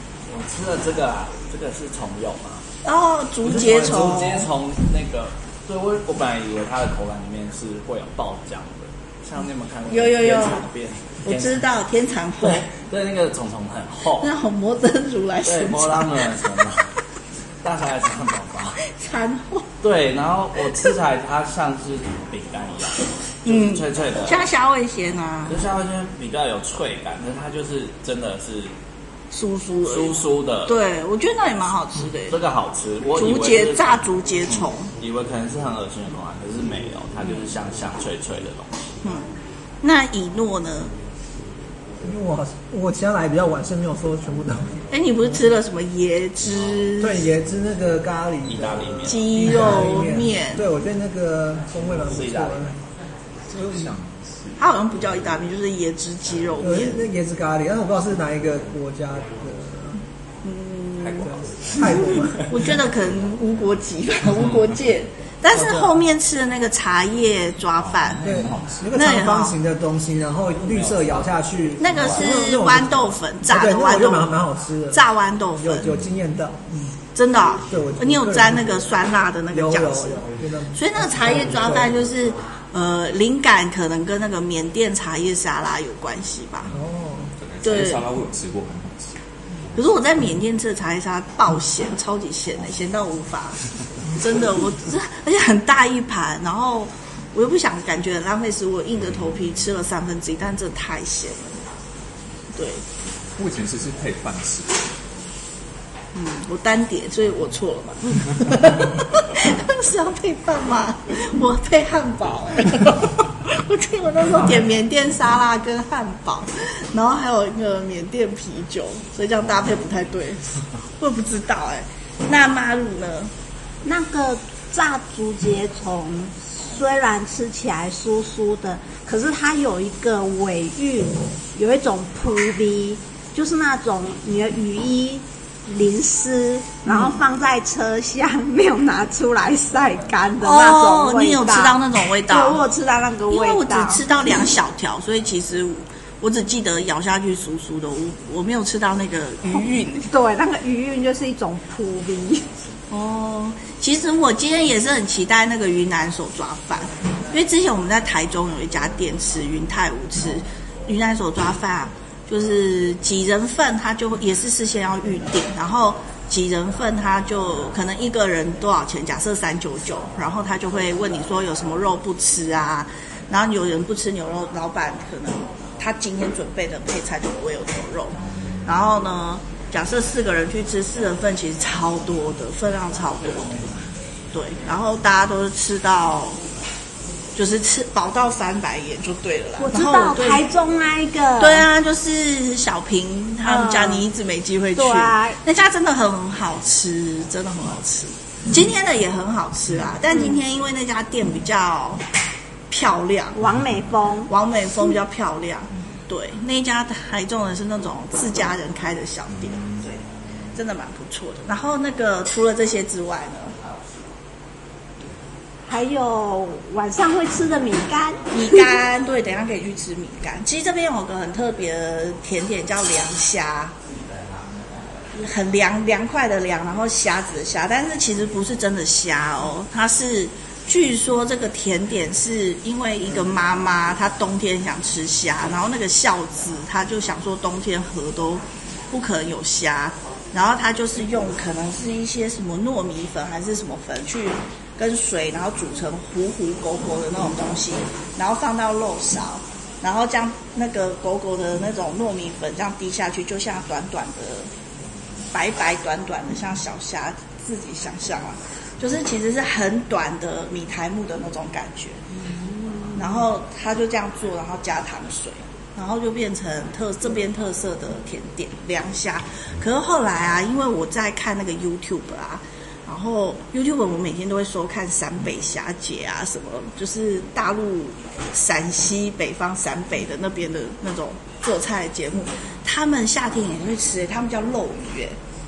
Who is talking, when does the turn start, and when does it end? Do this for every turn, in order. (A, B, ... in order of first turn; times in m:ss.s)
0:00.3-0:02.6 A
0:02.8-0:04.5 B
0:03.4-0:11.6 A
0:09.9-0:10.6 B
0:11.2-0:12.7 B
0:12.4-0:14.3 A
0:14.2-0:16.3 B
0:15.4-0:16.9 A
0:17.6-0:18.8 A
0:18.8-0:19.7 B
0:19.8-0:24.4 A
0:23.5-0:25.6 B
0:25.5-0:28.7 A
0:29.3-0:32.4 B
0:29.9-0:30.8 A
0:32.3-0:38.8 A
0:33.2-0:34.9 B
0:39.8-0:40.9 B
0:42.0-0:44.9 C
0:44.9-0:47.3 B
0:47.0-0:52.8 C
0:48.5-0:49.8 A
0:49.1-0:50.7 B
0:52.1-0:52.8 A
0:53.5-0:54.6 D
0:53.6-0:53.9 C
0:54.6-0:57.0 B
0:56.6-1:00.0 C
1:00.4-1:01.3 B
1:01.2-1:02.5 C
1:02.5-1:09.6 B
1:05.5-1:06.0 C
1:07.8-1:08.9 D
1:08.2-1:15.0 C
1:10.7-1:12.3 A
1:11.8-1:14.4 B
1:14.9-1:15.9 B
1:15.6-1:17.0 C
1:17.2-1:26.7 B
1:17.7-1:18.9 C
1:19.5-1:22.0 C
1:26.7-1:27.3 C
1:27.4-1:29.2 D
1:27.6-1:28.0 B
1:29.8-1:41.6 B
1:42.6-1:42.8 B
1:43.4-1:45.0 D
1:46.1-2:03.3 B
2:03.8-2:24.0 E
2:16.9-2:17.2 B
2:20.4-2:22.6 B
2:23.3-2:30.1 B
2:29.5-2:32.5 E
2:32.9-3:03.8 B
3:04.3-3:06.4 B
3:07.4-3:10.4 B
3:09.6-3:11.6 E
3:11.4-3:22.0 B
3:13.4-3:14.0 E
3:14.8-3:15.4 E
3:20.1-3:20.4 E
3:22.7-3:23.4 B
3:23.4-3:24.3 E
3:24.3-3:30.0 B
3:30.6-3:33.6 B
3:35.7-3:38.6 E
3:38.3-3:43.7 B
3:45.1-4:14.5 B
4:15.3-4:22.0 B
4:23.0-4:45.2 B